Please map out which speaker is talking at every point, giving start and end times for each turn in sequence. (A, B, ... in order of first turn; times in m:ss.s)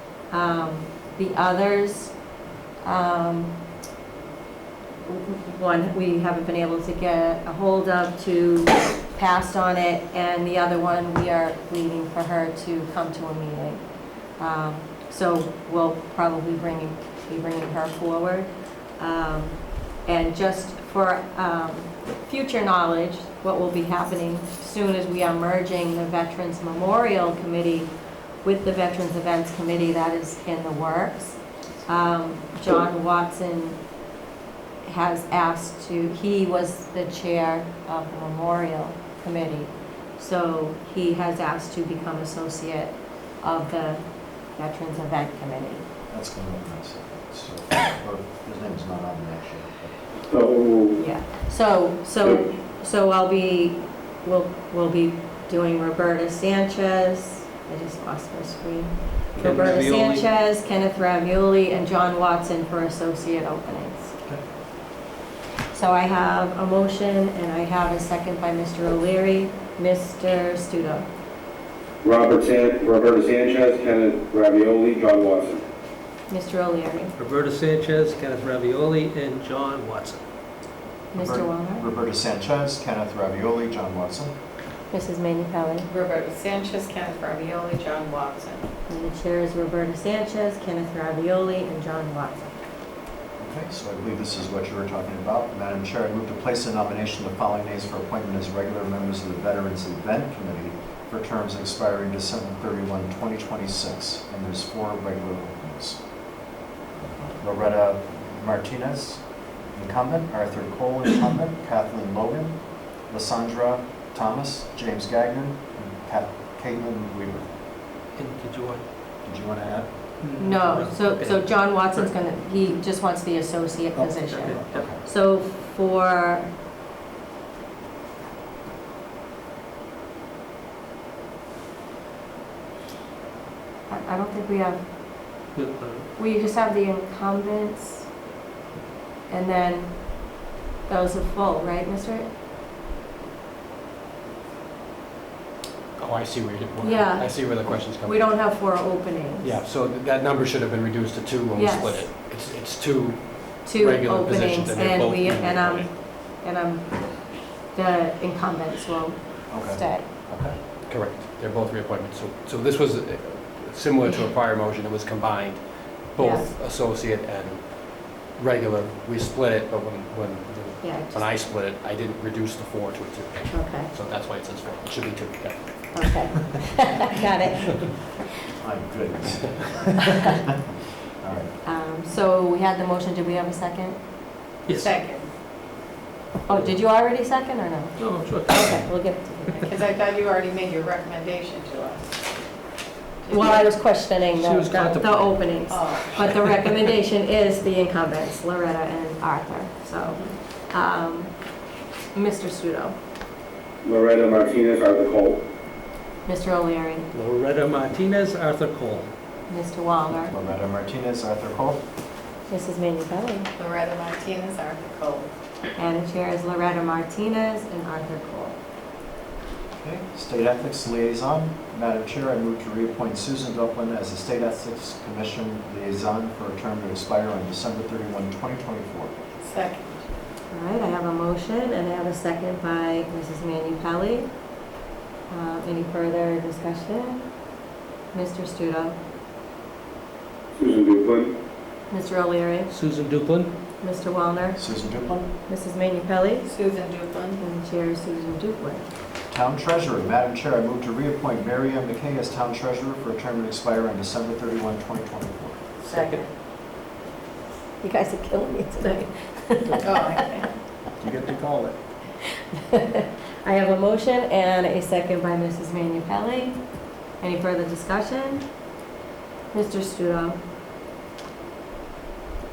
0:00.3-0:02.1 A
0:02.8-0:03.5 A
0:05.1-0:13.8 A
0:14.4-0:27.9 A
0:28.4-0:33.8 A
0:34.8-0:44.0 A
0:44.5-0:45.8 A
0:46.1-0:50.0 B
0:50.3-0:51.0 C
0:51.0-1:04.1 A
0:59.4-1:00.2 D
1:05.7-1:11.1 A
1:12.0-1:15.6 C
1:16.3-1:17.1 A
1:17.2-1:20.2 D
1:21.1-1:21.8 A
1:21.1-1:24.3 B
1:24.9-1:25.9 A
1:25.9-1:28.6 E
1:28.9-1:32.6 A
1:33.4-1:46.0 B
1:47.4-1:49.2 B
1:49.7-1:52.6 B
1:53.1-1:57.5 B
1:58.1-1:58.8 D
1:59.2-1:59.9 B
2:00.2-2:02.1 D
2:00.4-2:06.5 A
2:04.0-2:04.8 D
2:04.7-2:05.0 B
2:13.9-2:14.8 A
2:15.5-2:16.1 D
2:16.2-2:18.1 A
2:19.3-2:20.3 A
2:20.9-2:22.3 A
2:26.0-2:28.3 F
2:26.8-2:29.6 A
2:29.4-2:35.9 F
2:31.5-2:32.1 A
2:33.6-2:40.1 A
2:39.5-2:40.6 B
2:40.8-2:56.1 F
2:46.2-2:46.5 A
2:50.8-2:51.4 A
2:53.5-2:53.9 A
2:55.9-2:58.1 A
2:58.6-3:01.5 B
3:01.6-3:04.0 A
3:04.7-3:04.9 D
3:04.7-3:05.3 E
3:06.5-3:09.6 A
3:08.0-3:09.0 D
3:09.6-3:12.1 E
3:13.2-3:13.7 E
3:13.3-3:21.3 A
3:14.3-3:15.4 D
3:15.7-3:16.3 E
3:16.3-3:16.6 D
3:22.1-3:23.0 A
3:23.8-3:25.4 C
3:26.2-3:27.1 A
3:27.1-3:29.1 D
3:29.5-3:30.3 A
3:30.1-3:31.8 B
3:32.5-3:33.5 A
3:33.6-3:35.3 E
3:35.8-3:38.6 A
3:39.8-3:49.1 B
3:49.4-3:50.0 E
3:50.5-3:54.3 A
3:55.3-3:57.3 A
3:58.1-3:59.0 A
4:00.6-4:01.3 C
4:01.9-4:02.7 A
4:02.7-4:03.5 D
4:03.8-4:04.6 A
4:04.6-4:05.3 B
4:05.5-4:06.5 A
4:06.4-4:07.4 E
4:07.4-4:08.8 A
4:09.3-4:15.6 B
4:15.9-4:16.2 E
4:15.9-4:16.2 D
4:17.8-4:20.2 A
4:19.8-4:20.5 E
4:21.0-4:21.7 B
4:22.5-4:26.6 A
4:27.2-4:28.4 A
4:29.5-4:30.4 A